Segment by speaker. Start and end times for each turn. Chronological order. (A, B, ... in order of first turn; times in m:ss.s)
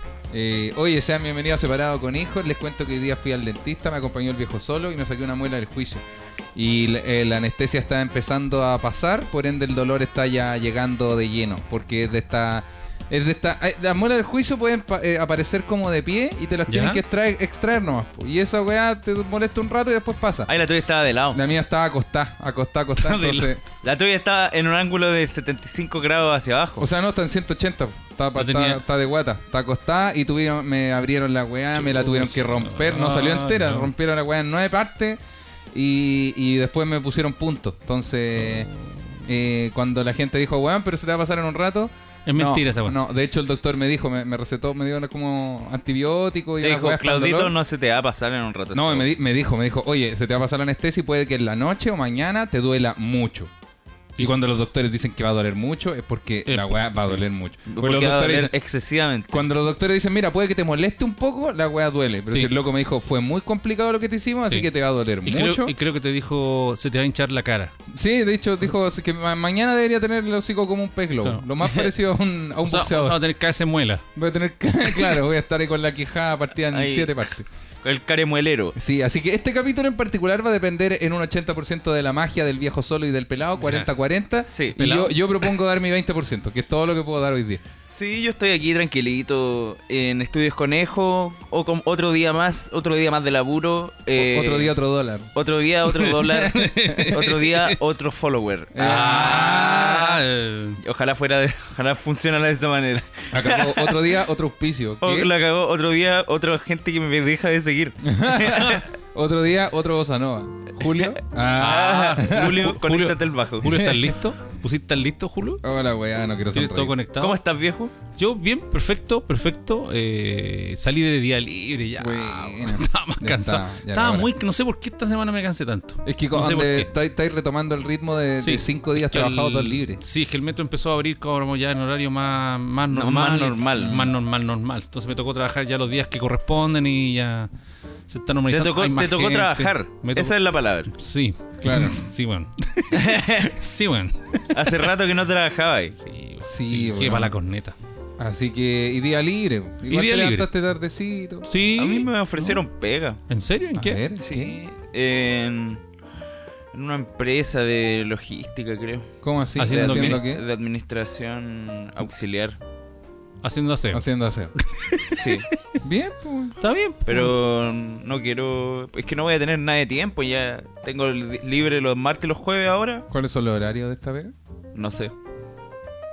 0:00.3-0:06.0 A
0:06.6-0:20.5 A
0:16.7-0:17.0 B
0:20.5-0:21.4 C
0:21.3-0:23.6 A
0:23.0-0:23.5 B
0:23.8-0:26.9 C
0:26.8-0:35.2 A
0:28.4-0:28.8 B
0:31.7-0:33.9 B
0:35.7-0:38.7 A
0:39.3-0:47.5 A
0:42.3-0:43.0 B
0:46.6-0:49.1 C
0:48.7-0:53.5 A
0:54.2-0:58.5 A
0:56.5-0:57.2 B
0:57.7-0:59.5 C
0:59.3-1:05.7 A
1:02.3-1:02.5 B
1:05.2-1:07.7 B
1:07.9-1:13.2 A
1:11.2-1:11.9 B
1:12.6-1:14.0 B
1:14.2-1:17.5 A
1:16.7-1:17.3 C
1:17.8-1:18.8 C
1:18.8-1:27.6 A
1:23.6-1:23.9 B
1:24.5-1:25.1 C
1:27.9-1:34.7 C
1:34.2-1:35.3 A
1:35.3-1:40.2 C
1:36.0-1:37.8 B
1:38.7-1:40.0 A
1:38.8-1:40.8 B
1:40.8-1:44.1 C
1:43.3-1:45.3 A
1:45.0-1:48.9 C
1:48.0-1:52.6 A
1:50.9-1:53.7 C
1:51.6-1:55.6 B
1:53.7-1:54.1 A
1:55.6-1:57.0 A
1:56.5-1:57.4 B
1:57.2-1:57.9 C
1:58.2-2:06.9 B
2:02.0-2:04.3 A
2:06.0-2:10.0 A
2:08.4-2:17.5 B
2:12.9-2:14.0 C
2:13.8-2:14.1 A
2:18.1-2:20.3 B
2:18.5-2:20.9 C
2:20.9-2:24.9 B
2:21.6-2:22.0 A
2:22.9-2:23.5 C
2:24.5-2:26.0 C
2:26.1-2:27.8 B
2:26.4-2:27.3 A
2:28.2-2:31.5 A
2:29.9-2:30.5 B
2:31.5-2:32.1 B
2:31.8-2:33.2 C
2:33.3-2:34.0 B
2:33.8-2:34.6 A
2:34.2-2:35.8 C
2:36.7-2:42.6 C
2:39.2-2:40.4 A
2:39.6-2:40.2 B
2:43.4-2:44.0 B
2:43.9-2:44.5 A
2:44.6-2:45.3 B
2:45.1-2:45.5 C
2:45.8-2:46.6 A
2:46.6-2:47.3 B
2:47.1-2:53.1 C
2:53.1-2:54.3 A
2:54.8-2:55.1 C